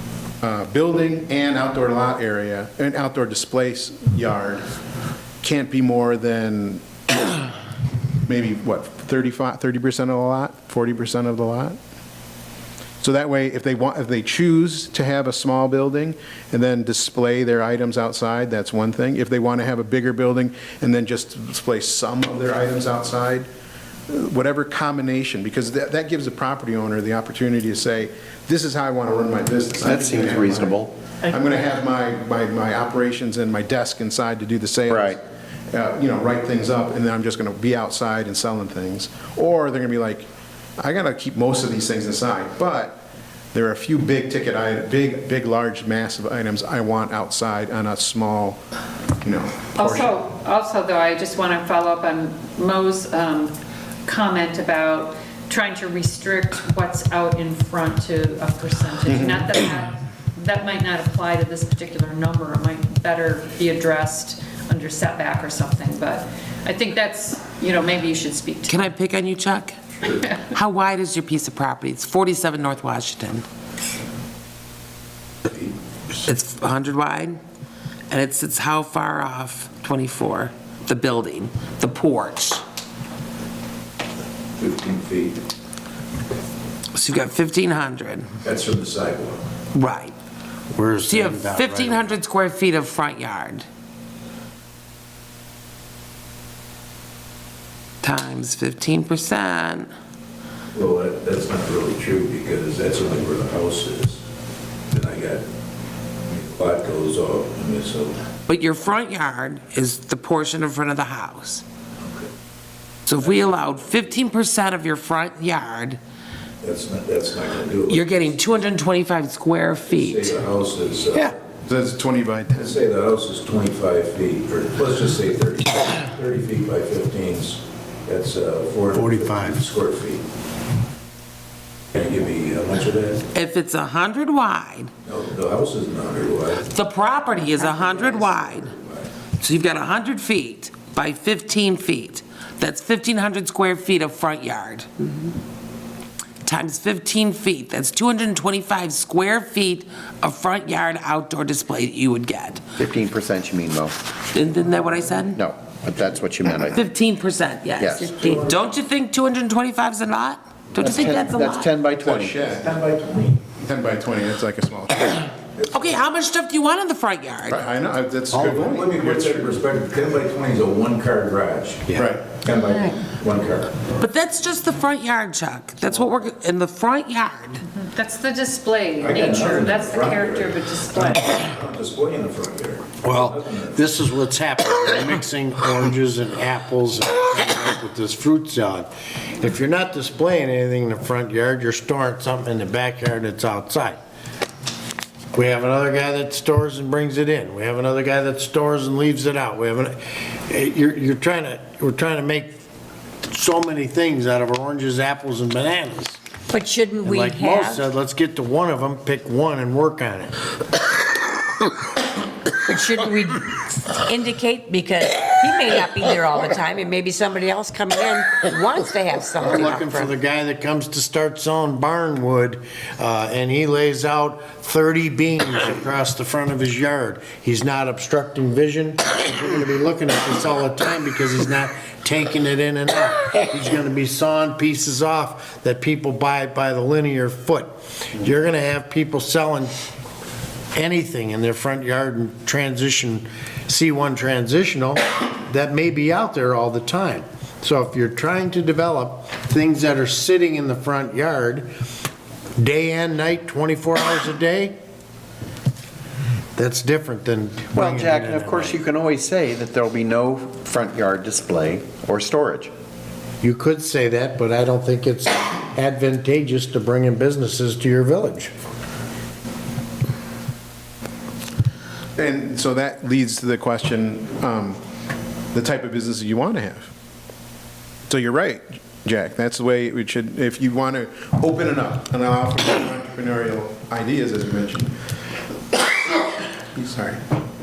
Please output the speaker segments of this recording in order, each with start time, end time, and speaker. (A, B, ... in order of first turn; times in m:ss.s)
0:00.4-0:04.6 A
0:05.4-0:07.4 A
0:08.2-0:11.8 A
0:13.0-0:23.5 A
0:24.1-0:40.3 A
0:29.8-0:30.9 B
0:34.9-0:35.2 B
0:40.8-0:43.0 A
0:43.5-0:48.6 A
0:49.2-0:50.2 A
0:49.8-0:53.5 C
0:54.0-1:08.9 C
0:59.1-0:59.5 A
1:08.7-1:13.4 D
1:15.5-1:15.7 E
1:16.2-1:17.4 D
1:18.1-1:22.6 D
1:24.6-1:25.4 E
1:26.9-1:28.3 D
1:28.4-1:29.4 E
1:29.7-1:30.1 D
1:30.7-1:32.1 F
1:31.1-1:33.6 D
1:38.0-1:39.9 D
1:40.7-1:44.2 E
1:44.9-1:45.4 E
1:46.3-1:48.2 E
1:48.5-1:51.6 D
1:53.1-1:56.0 D
1:56.6-1:58.3 E
1:57.9-2:00.3 D
1:59.9-2:01.4 E
2:01.7-2:02.7 A
2:02.5-2:10.2 E
2:08.9-2:09.7 F
2:11.9-2:13.2 E
2:13.3-2:14.9 D
2:15.1-2:16.7 E
2:16.7-2:18.7 D
2:17.6-2:19.1 E
2:19.4-2:25.1 D
2:26.4-2:32.6 D
2:32.8-2:34.0 B
2:34.3-2:35.4 D
2:35.3-2:36.8 B
2:36.7-2:41.7 D
2:37.8-2:38.1 B
2:38.1-2:38.6 E
2:40.8-2:42.5 B
2:42.0-2:42.7 A
2:42.5-2:43.4 E
2:43.6-2:45.2 A
2:45.6-2:46.0 E
2:45.7-2:47.6 D
2:47.5-2:49.5 A
2:48.3-2:48.8 F
2:48.5-2:53.7 E
2:51.9-2:52.4 A
2:54.0-2:57.6 D
2:57.7-3:01.2 C
2:59.0-3:03.8 E
3:03.0-3:14.0 F
3:15.3-3:22.6 F
3:23.2-3:26.2 F
3:26.5-3:27.8 G
3:27.0-3:30.4 F
3:32.7-3:40.1 G
3:39.4-3:59.7 F
4:00.7-4:11.7 F
4:12.6-4:14.8 F
4:16.6-4:18.8 F
4:17.8-4:22.7 B
4:23.4-4:28.5 F
4:32.2-4:34.8 A
4:35.5-4:36.9 A
4:38.1-4:44.9 A
4:46.7-4:47.2 A